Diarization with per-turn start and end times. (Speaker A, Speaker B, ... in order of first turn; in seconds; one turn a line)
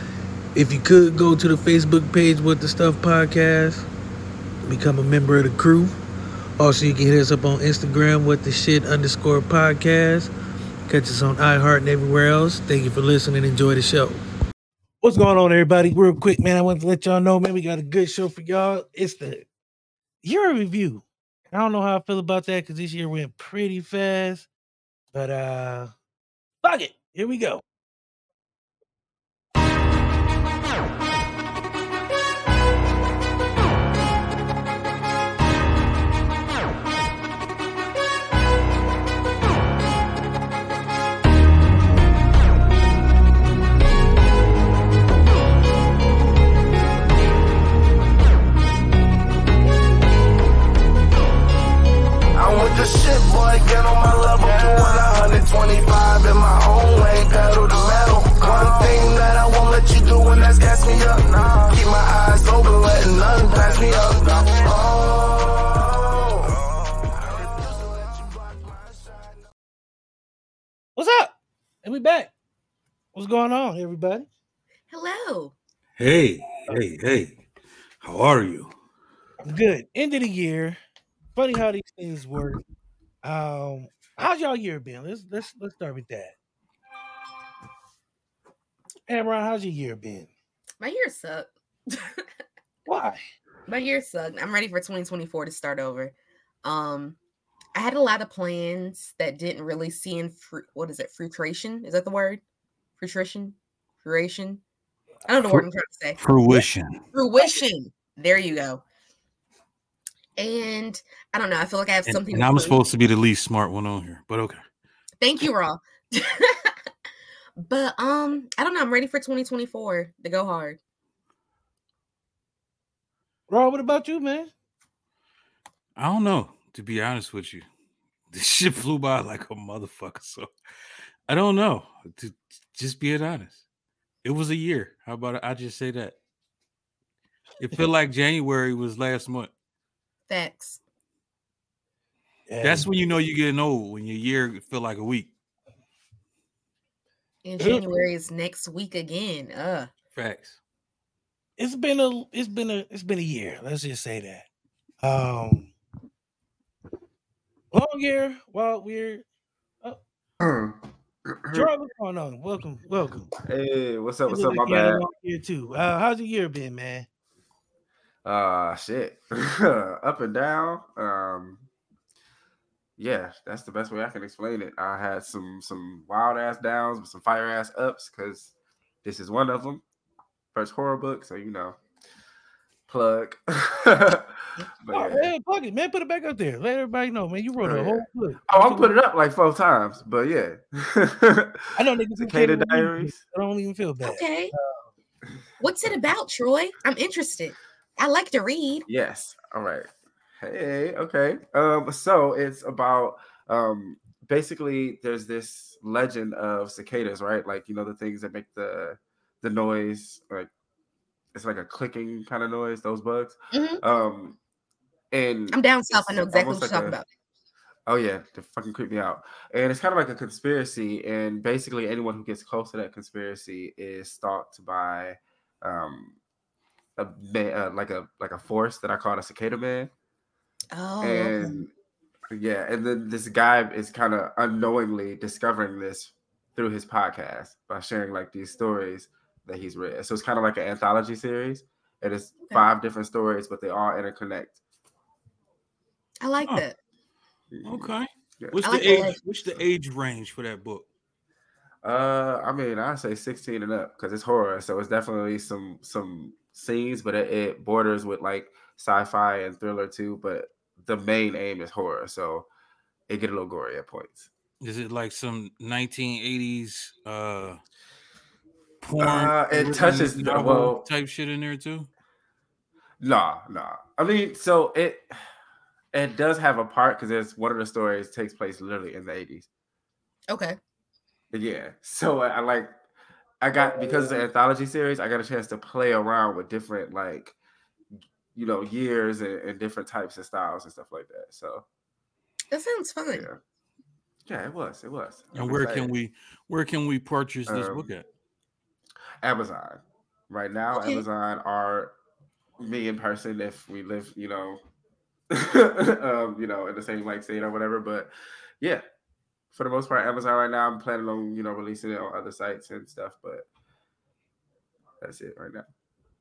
Speaker A: 0.6-3.9
Speaker A: 4.7-5.9
Speaker A: 6.6-10.3
Speaker A: 10.9-14.2
Speaker A: 15.0-19.5
Speaker A: 20.2-24.5
Speaker A: 25.1-25.9
Speaker A: 26.6-27.6
Speaker B: 52.4-66.5
Speaker B: 67.2-68.6
Speaker A: 71.0-72.3
Speaker A: 73.1-74.3
Speaker C: 74.9-75.5
Speaker D: 76.0-77.4
Speaker D: 78.0-78.7
Speaker A: 79.4-80.8
Speaker A: 81.4-82.6
Speaker A: 83.2-86.3
Speaker A: 89.1-90.3
Speaker C: 90.8-92.2
Speaker A: 92.9-93.2
Speaker C: 93.7-97.2
Speaker C: 97.8-102.4
Speaker C: 103.0-104.6
Speaker C: 105.3-106.6
Speaker D: 106.2-107.0
Speaker C: 107.1-108.8
Speaker C: 110.4-112.8
Speaker D: 112.1-114.6
Speaker C: 115.2-116.7
Speaker C: 117.6-120.8
Speaker A: 123.5-124.5
Speaker D: 126.0-127.7
Speaker D: 128.3-130.5
Speaker D: 131.3-133.6
Speaker D: 134.2-136.2
Speaker D: 137.6-139.5
Speaker C: 140.3-140.8
Speaker A: 142.5-142.9
Speaker D: 142.6-145.3
Speaker C: 147.4-149.9
Speaker A: 147.6-147.8
Speaker D: 150.2-150.6
Speaker A: 151.6-154.5
Speaker A: 155.0-155.7
Speaker A: 157.7-159.2
Speaker E: 160.4-160.8
Speaker E: 161.3-161.7
Speaker A: 161.5-163.3
Speaker E: 163.4-165.0
Speaker A: 164.3-167.1
Speaker E: 168.2-171.7
Speaker E: 173.0-178.5
Speaker E: 179.0-179.8
Speaker E: 180.5-181.8
Speaker E: 182.9-185.3
Speaker A: 184.9-188.9
Speaker E: 187.6-193.2
Speaker A: 191.8-194.8
Speaker C: 194.0-194.5
Speaker C: 195.6-198.9
Speaker E: 198.9-199.9
Speaker E: 200.4-210.5
Speaker E: 211.3-214.4
Speaker C: 213.5-213.8
Speaker E: 215.1-217.0
Speaker C: 215.5-217.1
Speaker E: 217.9-226.2
Speaker E: 227.0-229.9
Speaker C: 230.7-231.6
Speaker E: 231.0-231.7
Speaker E: 232.3-244.6
Speaker C: 246.2-246.8
Speaker E: 247.5-247.9
Speaker D: 247.6-250.8
Speaker C: 248.6-249.2
Speaker E: 251.8-262.5
Speaker E: 263.1-264.3
Speaker D: 264.6-267.6
Speaker D: 268.8-271.9
Speaker E: 269.0-270.9
Speaker E: 273.0-275.1
Speaker E: 275.9-279.5
Speaker C: 280.3-280.6
Speaker E: 281.3-282.7
Speaker E: 283.4-287.4
Speaker E: 288.4-291.6
Speaker C: 292.5-293.3
Speaker E: 293.1-293.4
Speaker E: 294.3-295.9
Speaker D: 295.4-298.1
Speaker E: 297.5-297.9
Speaker E: 299.2-301.9
Speaker C: 300.7-301.0
Speaker E: 302.6-304.6
Speaker E: 305.3-308.8
Speaker E: 309.5-313.4
Speaker E: 315.0-315.7